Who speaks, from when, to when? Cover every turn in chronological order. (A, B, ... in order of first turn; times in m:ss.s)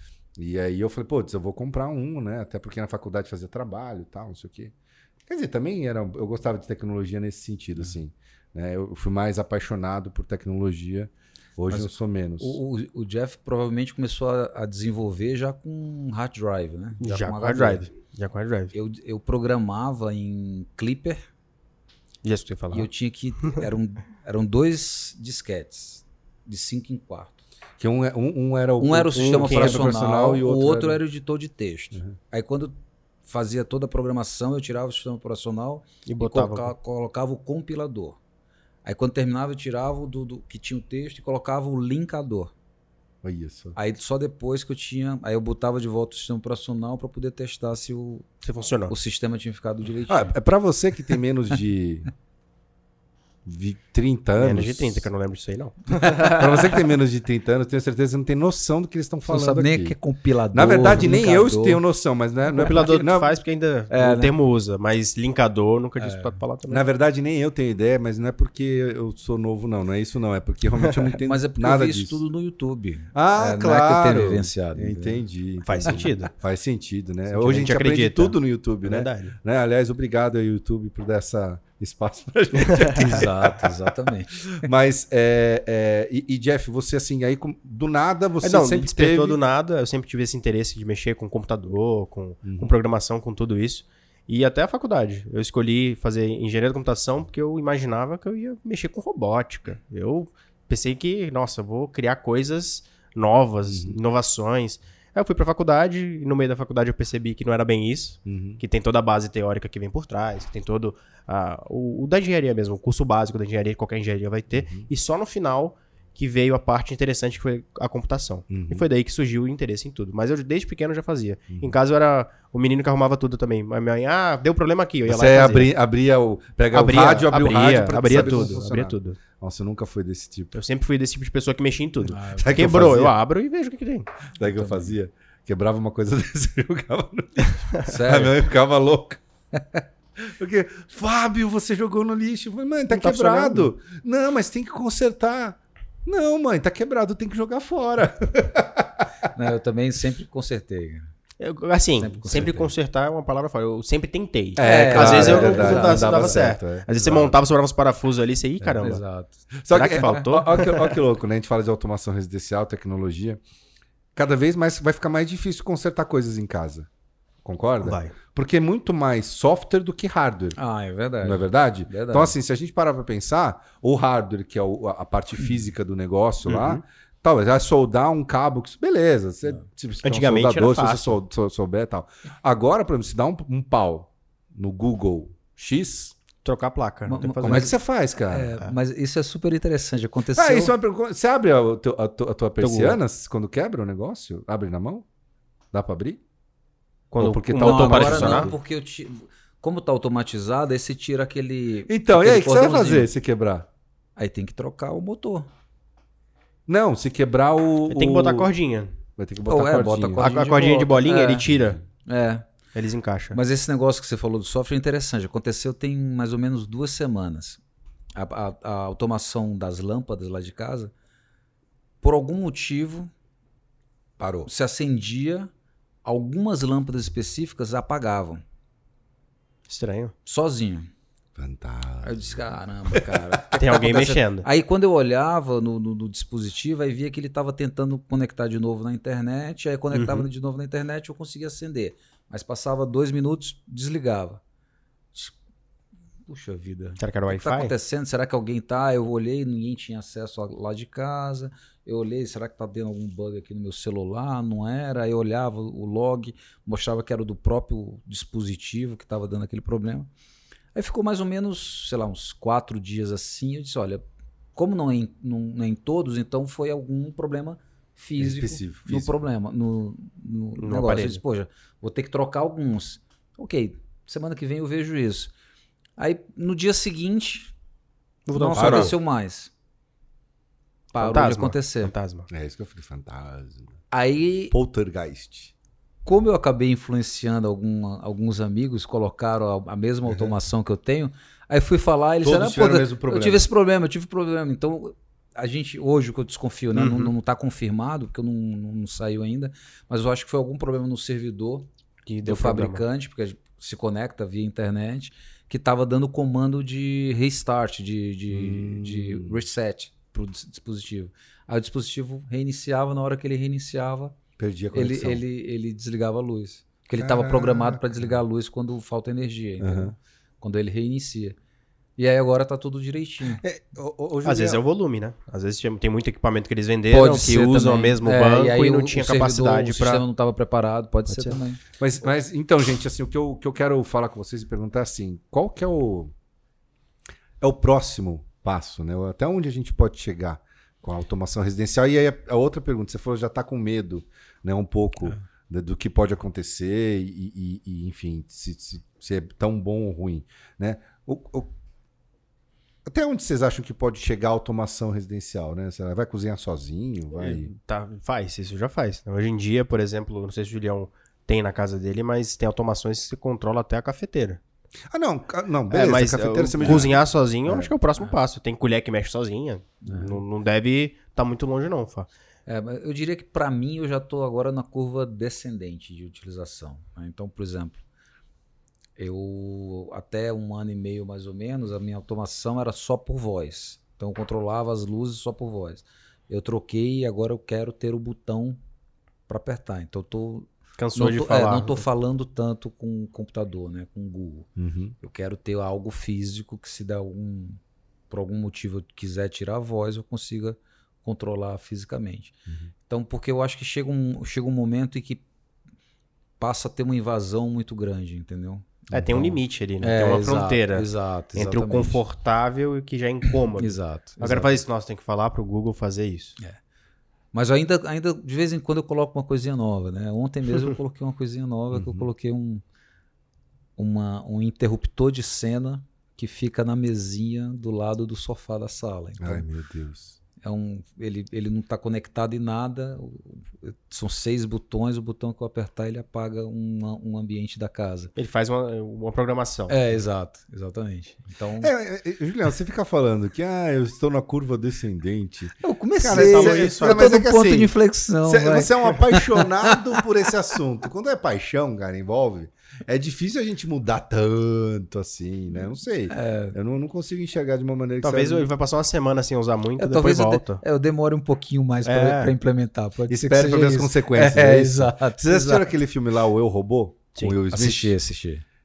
0:00.4-0:04.7 A
0:05.3-0:12.6 A
0:11.7-0:17.9 B
0:17.0-0:18.7 C
0:18.7-0:21.2 B
0:22.2-0:22.9 C
0:22.7-0:27.4 B
0:27.8-0:31.0 A
0:28.8-0:38.2 B
0:29.2-0:29.9 C
0:36.0-0:36.7 C
0:38.8-0:42.5 B
0:43.2-0:43.8 A
0:43.8-0:48.3 B
0:48.4-0:48.9 C
0:48.9-0:50.3 B
0:50.1-0:52.1 A
0:53.4-0:55.1 A
0:54.4-0:56.8 C
0:56.2-1:00.0 A
0:59.3-1:01.8 B
1:00.5-1:03.3 A
1:02.6-1:06.8 C
1:03.9-1:04.3 B
1:06.0-1:06.4 B
1:06.7-1:12.2 A
1:10.8-1:11.1 C
1:11.2-1:15.2 B
1:13.1-1:23.8 A
1:15.6-1:16.3 C
1:17.3-1:19.4 C
1:22.5-1:23.1 C
1:23.0-1:24.6 B
1:24.6-1:29.4 A
1:28.4-2:05.7 C
1:32.4-1:32.7 A
1:43.6-1:44.0 A
1:48.2-1:48.6 A
1:54.5-1:54.9 A
1:58.5-1:58.8 A
2:05.0-2:10.6 A
2:06.7-2:09.2 C
2:10.5-2:14.1 C
2:12.1-2:12.8 B
2:12.4-2:13.2 A
2:14.3-2:19.2 A
2:14.4-2:14.9 B
2:17.8-2:18.3 B
2:20.2-2:29.1 A
2:22.9-2:23.7 C
2:29.3-2:31.1 B
2:31.4-2:39.0 C
2:32.0-2:32.7 B
2:34.6-2:37.4 A
2:34.6-2:36.5 B
2:38.8-2:39.4 B
2:39.6-2:43.4 A
2:39.7-2:41.0 C
2:44.2-2:46.9 A
2:47.4-2:50.6 A
2:47.8-2:48.2 C
2:50.6-2:52.4 B
2:51.2-3:06.2 A
2:56.5-2:56.8 C
3:00.0-3:01.2 C
3:06.4-3:07.7 C
3:07.1-3:10.7 B
3:07.4-3:08.6 A
3:10.3-3:15.0 A
3:12.6-3:13.0 C
3:15.7-3:16.2 A
3:17.1-3:18.5 C
3:17.2-3:18.6 A
3:17.5-3:23.1 B
3:21.9-3:23.7 A
3:24.2-3:25.5 B
3:26.7-3:28.5 A
3:27.9-3:28.9 C
3:29.2-3:30.3 A
3:29.5-3:31.5 B
3:30.2-3:31.8 C
3:31.5-3:31.8 A
3:32.0-3:32.5 B
3:32.7-3:33.4 C
3:33.3-3:37.6 B
3:38.2-3:40.9 B
3:42.0-3:43.1 B
3:44.2-3:44.5 A
3:44.4-3:45.5 B
3:46.0-3:48.4 B
3:49.7-3:50.1 C
3:50.2-3:50.9 B
3:51.4-3:53.1 A
3:52.0-4:04.4 B
3:53.5-3:54.5 C
3:59.9-4:00.3 C
4:06.3-4:20.1 B
4:07.0-4:07.7 C
4:20.8-4:24.0 B
4:24.5-4:35.3 B
4:28.2-4:29.1 A
4:30.6-4:31.2 C
4:36.0-4:37.5 B
4:38.2-4:39.0 C
4:38.3-4:39.5 B
4:38.6-4:39.0 A
4:40.9-4:41.9 B
4:41.0-4:42.3 C
4:42.3-4:43.8 A
4:43.9-4:44.5 B
4:44.5-4:45.5 A
4:46.0-5:01.7 B
4:50.1-4:50.3 A
4:52.2-4:53.5 A
4:56.7-4:57.1 C
5:02.0-5:02.8 C
5:02.2-5:14.2 B
5:08.3-5:09.4 A
5:14.4-5:15.2 A
5:14.7-5:21.4 B
5:16.9-5:18.2 A
5:19.6-5:19.9 A
5:22.0-5:23.4 B
5:23.2-5:24.6 A
5:24.2-5:30.0 C
5:26.9-5:31.6 B
5:31.1-5:31.4 C
5:31.8-5:36.1 A
5:37.4-5:51.5 A
5:52.8-5:57.5 A
5:57.2-6:04.4 C
6:04.9-6:07.7 A
6:05.7-6:12.1 C
6:09.8-6:10.2 B
6:12.5-6:17.8 B
6:19.0-6:28.6 B
6:29.3-6:34.5 B
6:30.8-6:31.8 C
6:34.6-6:35.0 A
6:35.0-6:37.6 B
6:38.1-6:42.3 B
6:42.9-6:45.2 B
6:46.4-6:52.0 B
6:48.9-6:49.2 A
6:48.9-6:56.4 C
6:53.6-6:54.6 B
6:57.3-7:02.6 B
7:01.7-7:02.1 A
7:03.8-7:09.5 B
7:09.2-7:10.2 A
7:10.4-7:18.1 B
7:18.2-7:19.8 C
7:19.7-7:21.7 B
7:21.6-7:27.7 A
7:25.6-7:30.0 B
7:26.1-7:27.1 C
7:28.2-7:38.5 A
7:36.1-7:36.5 B
7:38.0-7:40.6 C
7:39.8-7:45.7 B
7:41.8-7:42.3 C
7:43.1-7:48.0 A
7:47.5-7:48.4 B